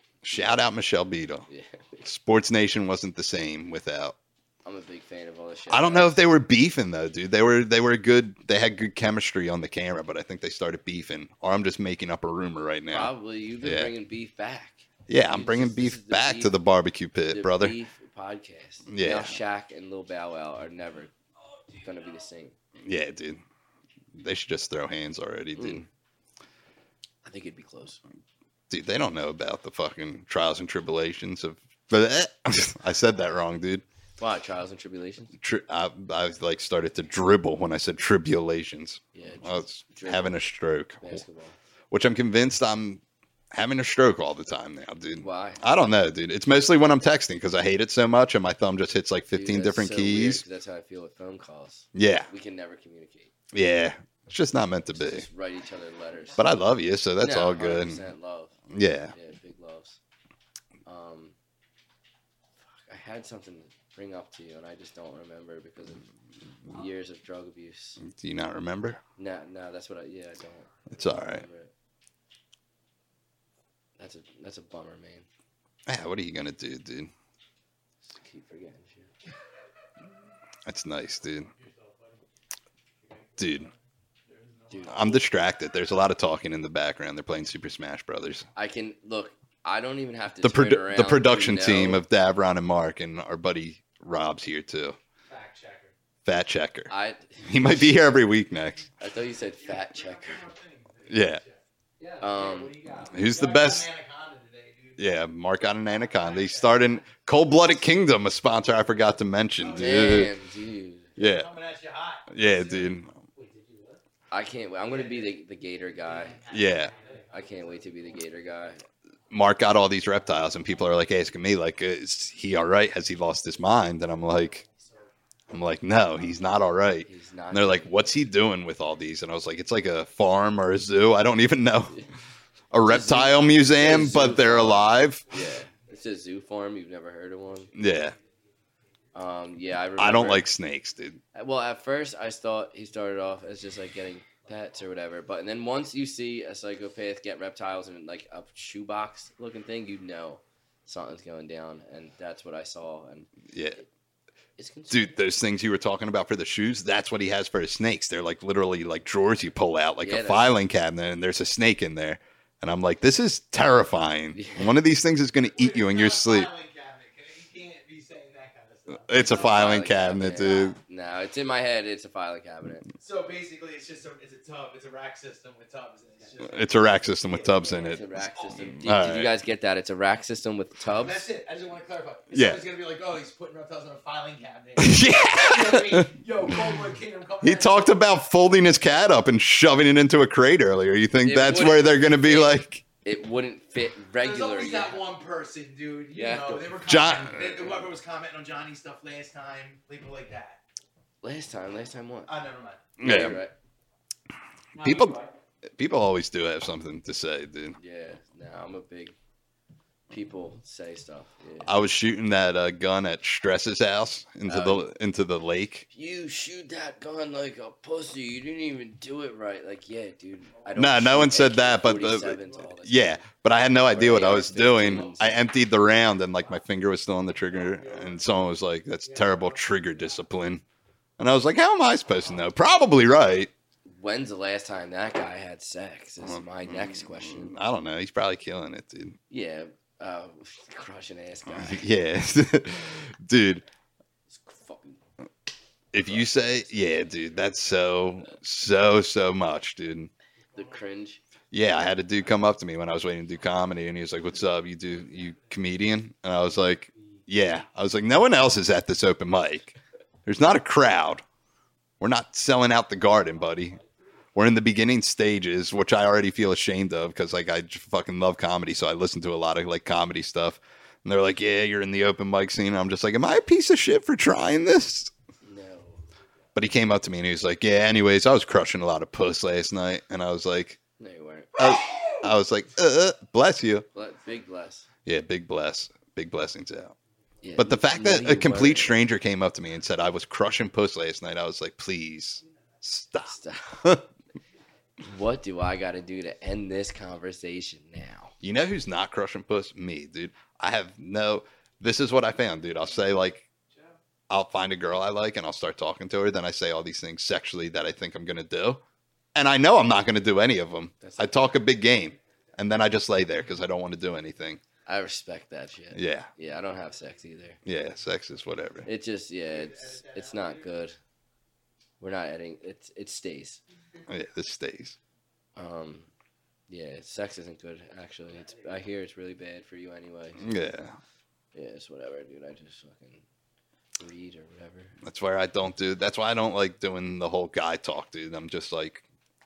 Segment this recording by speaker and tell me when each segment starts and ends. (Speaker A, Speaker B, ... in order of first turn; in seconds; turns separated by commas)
Speaker A: 0.2-1.5, Speaker B: 1.5-2.0, Speaker A: 2.0-4.1, Speaker B: 4.6-6.2, Speaker A: 5.7-13.9, Speaker B: 12.9-16.6, Speaker A: 15.1-17.8, Speaker B: 17.3-21.1, Speaker A: 18.9-19.4, Speaker B: 21.8-22.5, Speaker A: 22.8-23.4, Speaker A: 24.1-25.9, Speaker B: 25.6-25.8, Speaker B: 27.2-28.0, Speaker A: 28.7-33.8, Speaker B: 34.2-35.4, Speaker A: 35.4-41.2, Speaker B: 39.1-40.4, Speaker B: 41.0-41.5, Speaker A: 41.9-50.4, Speaker B: 45.2-45.6, Speaker B: 49.3-53.3, Speaker A: 51.9-52.3, Speaker A: 53.5-55.2, Speaker B: 54.9-56.5, Speaker A: 56.4-58.0, Speaker B: 57.2-58.6, Speaker A: 58.7-59.1, Speaker B: 59.1-60.0, Speaker B: 60.9-61.4, Speaker B: 62.7-66.1, Speaker B: 66.7-68.0, Speaker A: 68.0-69.0, Speaker B: 69.2-71.7, Speaker A: 70.9-71.4, Speaker B: 74.0-75.3, Speaker A: 75.9-77.1, Speaker B: 78.1-79.1, Speaker A: 80.7-81.5, Speaker C: 81.6-82.0, Speaker A: 83.4-83.7, Speaker C: 84.3-84.9, Speaker B: 84.7-85.2, Speaker A: 84.8-88.5, Speaker B: 88.5-92.0, Speaker A: 90.4-95.0, Speaker C: 95.3-95.9, Speaker A: 96.2-98.9, Speaker B: 96.9-97.9, Speaker B: 99.0-100.4, Speaker D: 99.6-101.6, Speaker A: 101.1-101.4, Speaker C: 102.0-103.3, Speaker B: 102.2-102.8, Speaker A: 103.0-103.9, Speaker D: 103.1-105.1, Speaker A: 105.0-110.3, Speaker D: 106.1-106.9, Speaker D: 109.6-110.3, Speaker B: 109.8-111.2, Speaker A: 111.2-111.5, Speaker D: 111.2-112.7, Speaker A: 112.3-113.1, Speaker C: 112.6-114.0, Speaker B: 114.3-116.4, Speaker D: 114.9-115.3, Speaker C: 116.1-117.7, Speaker D: 116.4-117.2, Speaker A: 116.5-116.9, Speaker B: 117.3-118.8, Speaker A: 119.3-124.6, Speaker A: 125.5-132.0, Speaker B: 127.0-128.0, Speaker A: 132.7-135.3, Speaker B: 132.8-137.7, Speaker A: 137.7-138.1, Speaker B: 139.1-140.4, Speaker A: 140.0-141.2, Speaker B: 141.3-153.8, Speaker A: 153.5-153.8, Speaker B: 154.6-155.2, Speaker A: 154.9-166.5, Speaker B: 160.0-160.5, Speaker B: 164.3-164.8, Speaker D: 165.4-169.8, Speaker A: 169.1-170.8, Speaker B: 169.1-172.9, Speaker D: 173.0-178.0, Speaker A: 176.4-178.1, Speaker B: 177.6-181.2, Speaker A: 178.7-179.3, Speaker D: 180.9-187.9, Speaker A: 182.3-182.6, Speaker A: 184.8-186.6, Speaker A: 187.4-192.8, Speaker B: 191.2-195.0, Speaker D: 194.2-200.6, Speaker B: 196.1-196.8, Speaker A: 196.8-197.8, Speaker B: 201.2-202.3, Speaker D: 202.3-202.9, Speaker A: 203.0-203.4, Speaker B: 203.0-203.5, Speaker A: 204.7-205.2, Speaker C: 204.7-205.3, Speaker A: 205.7-207.8, Speaker B: 207.8-209.1, Speaker B: 210.1-211.7, Speaker A: 211.6-215.8, Speaker B: 214.4-214.9, Speaker B: 215.9-223.2, Speaker A: 220.7-230.6, Speaker B: 223.8-225.4, Speaker D: 227.6-228.2, Speaker D: 229.1-229.5, Speaker A: 231.2-233.5, Speaker B: 233.8-237.6, Speaker A: 236.2-239.2, Speaker B: 239.3-241.9, Speaker A: 241.5-243.6, Speaker B: 244.3-245.0, Speaker A: 245.9-250.1, Speaker B: 246.0-247.1, Speaker B: 250.5-251.2, Speaker A: 251.5-261.2, Speaker A: 262.0-263.8, Speaker A: 264.3-275.1, Speaker B: 275.4-276.0, Speaker A: 276.5-280.8, Speaker B: 281.0-281.6, Speaker A: 281.6-283.9, Speaker B: 283.9-284.9, Speaker A: 285.1-286.9, Speaker B: 287.4-288.9, Speaker A: 287.6-294.1, Speaker B: 293.2-293.8, Speaker B: 295.0-298.3, Speaker A: 298.4-303.4, Speaker A: 304.3-308.8, Speaker A: 309.3-314.6, Speaker B: 311.0-311.5, Speaker B: 314.9-317.6, Speaker A: 315.9-316.3, Speaker A: 317.6-318.9, Speaker B: 318.9-321.0, Speaker D: 319.5-320.6, Speaker B: 322.0-323.6, Speaker A: 324.1-324.9, Speaker B: 325.6-326.1, Speaker B: 326.7-330.5, Speaker A: 330.4-330.9, Speaker B: 331.5-333.2, Speaker B: 334.0-334.9, Speaker A: 335.0-339.0